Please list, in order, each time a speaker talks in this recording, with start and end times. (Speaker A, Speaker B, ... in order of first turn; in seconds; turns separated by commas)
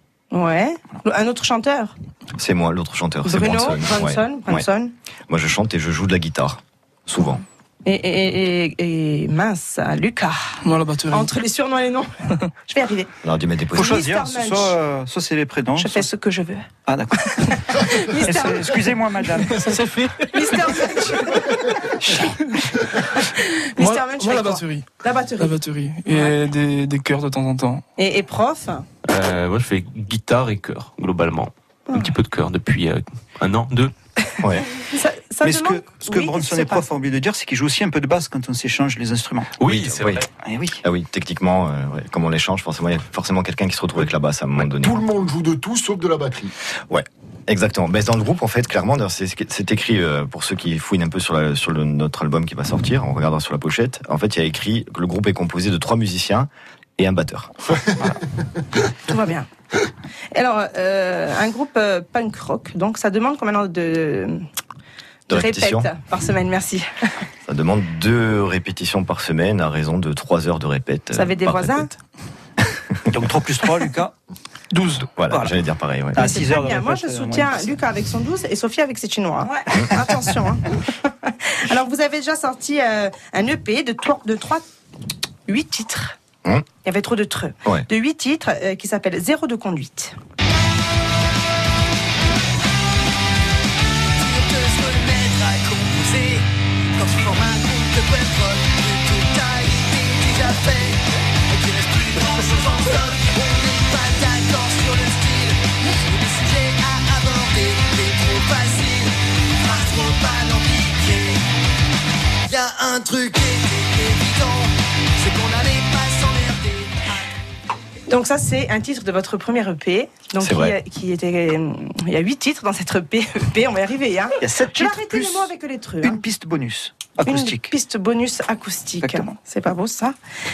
Speaker A: 0.3-1.9, Speaker B: 2.4-4.6, Speaker A: 3.2-4.9, Speaker B: 5.3-7.4, Speaker A: 7.8-10.6, Speaker C: 10.6-11.3, Speaker A: 11.1-12.1, Speaker A: 12.7-13.1, Speaker B: 13.2-14.1, Speaker D: 13.7-16.1, Speaker A: 13.7-14.7, Speaker A: 15.8-16.7, Speaker D: 16.9-17.3, Speaker A: 17.3-18.7, Speaker D: 18.2-19.8, Speaker C: 19.5-20.9, Speaker A: 20.3-22.3, Speaker A: 23.0-25.5, Speaker C: 23.8-24.9, Speaker C: 25.4-27.8, Speaker A: 27.9-28.9, Speaker E: 29.1-33.9, Speaker B: 34.4-34.7, Speaker A: 34.8-36.8, Speaker D: 35.4-39.5, Speaker E: 39.6-40.3, Speaker B: 39.6-40.2, Speaker D: 40.4-40.8, Speaker B: 40.8-45.0, Speaker F: 44.6-46.5, Speaker B: 46.9-57.5, Speaker A: 59.0-59.5, Speaker A: 60.3-64.4, Speaker B: 65.3-65.9, Speaker A: 65.3-66.9, Speaker B: 67.5-71.9, Speaker A: 71.1-71.9, Speaker D: 73.1-74.1, Speaker C: 74.7-75.1, Speaker B: 75.0-76.2, Speaker D: 75.3-75.5, Speaker D: 76.1-77.8, Speaker A: 76.2-84.6, Speaker B: 79.7-80.0, Speaker A: 85.5-86.2, Speaker A: 86.8-90.1, Speaker G: 94.2-96.5, Speaker G: 97.0-111.4, Speaker G: 112.5-117.1, Speaker A: 118.1-126.2, Speaker B: 120.4-120.7, Speaker D: 124.4-127.7, Speaker A: 127.2-130.1, Speaker D: 129.0-129.3